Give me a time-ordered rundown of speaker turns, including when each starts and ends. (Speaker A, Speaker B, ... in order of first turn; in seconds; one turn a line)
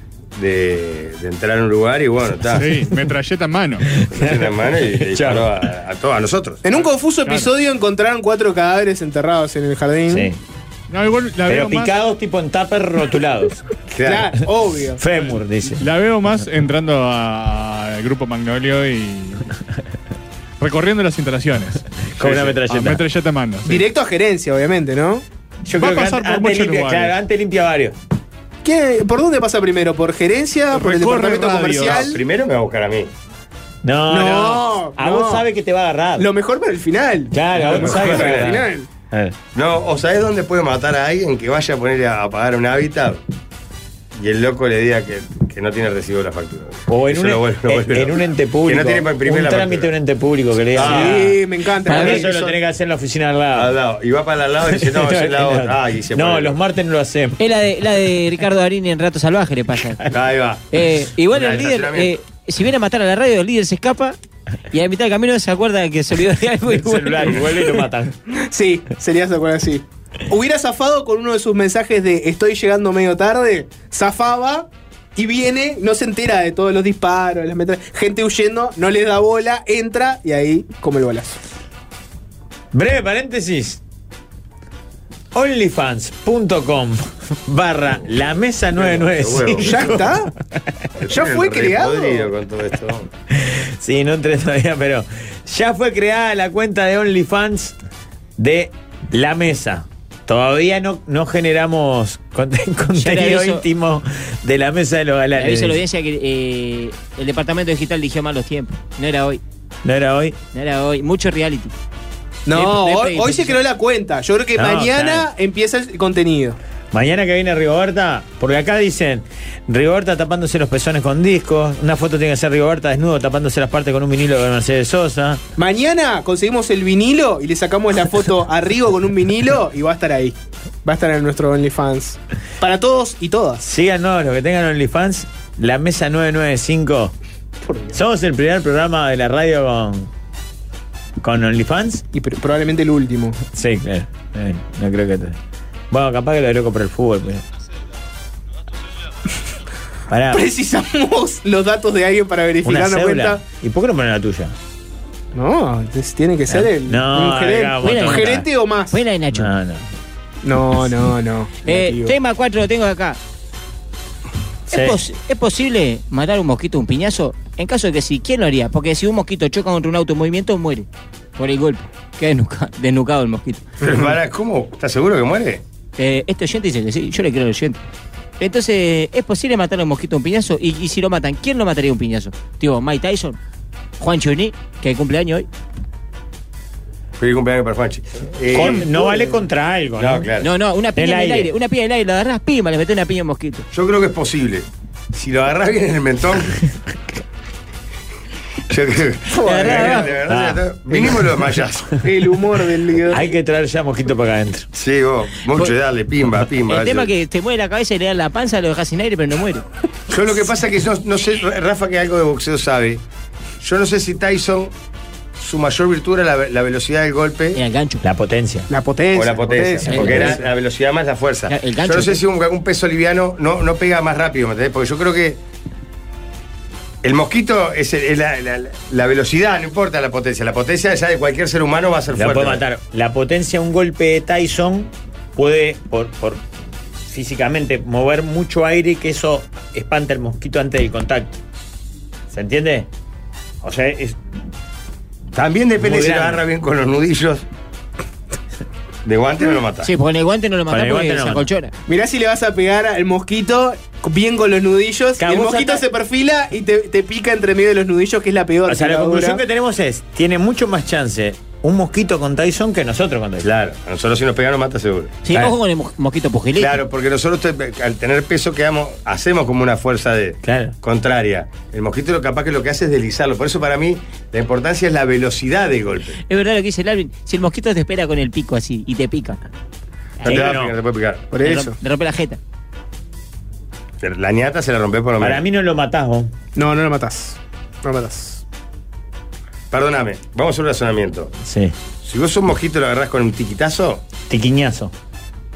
Speaker A: 0.3-2.7
Speaker B: 2.5-3.9
Speaker C: 4.0-5.6
Speaker A: 4.1-6.6
Speaker D: 6.6-10.3
Speaker B: 7.2-7.5
Speaker C: 10.1-10.4
Speaker B: 10.9-11.9
Speaker C: 11.5-13.6
Speaker A: 13.9-14.3
Speaker D: 14.0-15.0
Speaker C: 15.0-15.9
Speaker B: 15.8-19.5
Speaker B: 20.6-23.9
Speaker C: 22.2-23.0
Speaker D: 23.6-25.2
Speaker C: 25.6-27.9
Speaker B: 25.8-27.1
Speaker D: 28.6-32.2
Speaker B: 30.7-32.1
Speaker A: 31.2-33.1
Speaker C: 33.8-36.3
Speaker D: 34.1-35.5
Speaker D: 36.2-38.9
Speaker C: 37.3-39.4
Speaker A: 37.7-38.6
Speaker A: 39.5-43.2
Speaker A: 44.1-49.9
Speaker C: 46.9-53.7
Speaker A: 50.7-51.3
Speaker D: 50.8-52.2
Speaker E: 51.9-52.2
Speaker A: 52.0-52.6
Speaker A: 53.5-56.6
Speaker C: 54.7-57.4
Speaker E: 57.4-60.0
Speaker A: 60.1-60.8
Speaker E: 60.7-64.2
Speaker A: 61.3-62.1
Speaker E: 64.7-67.8
Speaker C: 66.7-68.1
Speaker D: 68.3-81.4
Speaker C: 82.7-83.8
Speaker C: 85.3-90.2
Speaker A: 88.7-90.1
Speaker D: 89.6-90.3
Speaker A: 91.0-93.1
Speaker D: 91.1-92.3
Speaker C: 93.3-97.8
Speaker C: 98.4-105.8
Speaker E: 103.0-103.6
Speaker E: 105.4-109.4
Speaker C: 109.8-110.4
Speaker E: 110.5-111.7
Speaker D: 112.5-116.6
Speaker E: 112.5-113.6
Speaker C: 114.6-115.3
Speaker C: 116.9-125.4
Speaker D: 125.6-133.6
Speaker C: 133.6-137.1
Speaker D: 137.7-138.0
Speaker C: 137.9-140.1
Speaker C: 141.2-142.0
Speaker D: 142.1-143.4
Speaker C: 143.5-145.4
Speaker C: 145.9-147.4
Speaker C: 150.1-150.4
Speaker D: 150.3-153.4
Speaker C: 152.6-154.6
Speaker D: 155.3-159.0
Speaker C: 156.5-158.4
Speaker E: 157.8-159.5
Speaker C: 159.3-159.9
Speaker D: 160.4-162.1
Speaker E: 161.7-163.2
Speaker E: 164.7-173.7
Speaker C: 164.7-165.0
Speaker A: 173.8-175.6
Speaker E: 175.9-177.8
Speaker E: 178.4-183.4
Speaker E: 184.0-185.5
Speaker A: 187.2-189.4
Speaker C: 188.5-190.3
Speaker A: 190.0-190.5
Speaker E: 190.4-193.7
Speaker C: 190.9-191.5
Speaker A: 193.7-196.6
Speaker A: 198.7-202.1
Speaker D: 199.3-200.1
Speaker E: 199.4-200.1
Speaker C: 200.2-200.6
Speaker D: 202.0-203.3
Speaker C: 203.1-204.7
Speaker A: 204.7-207.1
Speaker E: 206.6-209.7
Speaker A: 210.1-213.0
Speaker A: 213.6-214.7
Speaker A: 215.3-217.6
Speaker E: 217.5-218.0
Speaker C: 218.0-218.7
Speaker D: 218.7-220.4
Speaker A: 219.1-225.4
Speaker E: 219.9-220.4
Speaker E: 221.5-222.2
Speaker A: 227.0-232.6
Speaker C: 232.1-236.4
Speaker C: 237.1-241.4
Speaker C: 242.3-242.9
Speaker C: 243.6-244.2
Speaker A: 245.3-247.4
Speaker C: 245.8-246.4
Speaker A: 249.0-249.9
Speaker E: 249.8-251.7
Speaker C: 250.7-251.5
Speaker D: 251.9-259.4
Speaker C: 255.2-255.8
Speaker C: 258.6-263.5
Speaker A: 263.4-265.2
Speaker E: 265.2-266.8
Speaker A: 266.6-276.2
Speaker C: 270.4-270.7
Speaker E: 276.3-279.4
Speaker E: 280.2-280.5
Speaker A: 280.2-281.4
Speaker C: 280.2-280.7
Speaker D: 281.3-281.8
Speaker E: 281.4-282.4
Speaker A: 284.0-285.4
Speaker C: 285.2-286.3
Speaker D: 286.6-288.4
Speaker A: 289.7-291.3
Speaker C: 291.4-291.7
Speaker A: 292.0-294.0
Speaker C: 294.3-294.9